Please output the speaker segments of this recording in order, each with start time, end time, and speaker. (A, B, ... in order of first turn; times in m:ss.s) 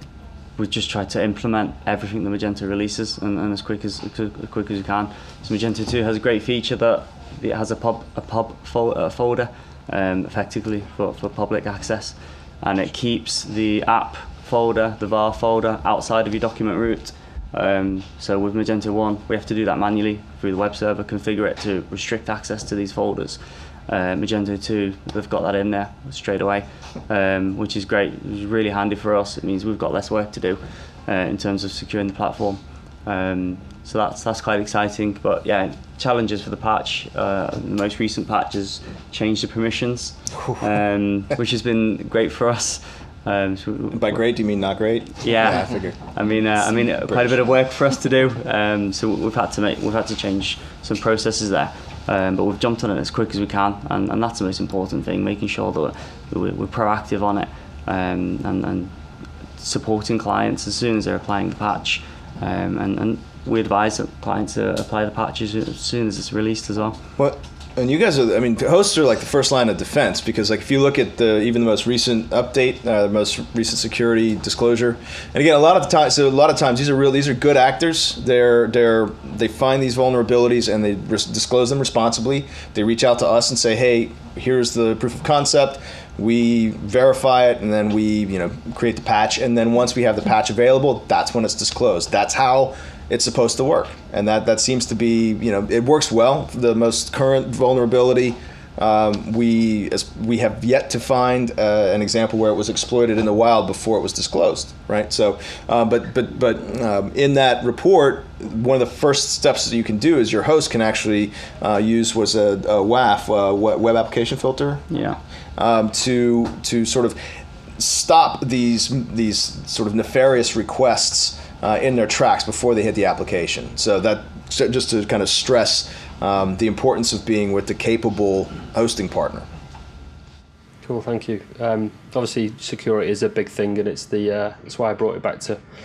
0:00.6-0:44.2 A
0:43.9-0:47.4 B
0:45.2-0:59.0 A
0:59.6-1:07.0 A
1:07.2-1:54.8 B
1:54.9-1:55.2 A
1:55.6-1:57.2 B
1:57.8-2:09.5 B
2:10.8-2:15.6 C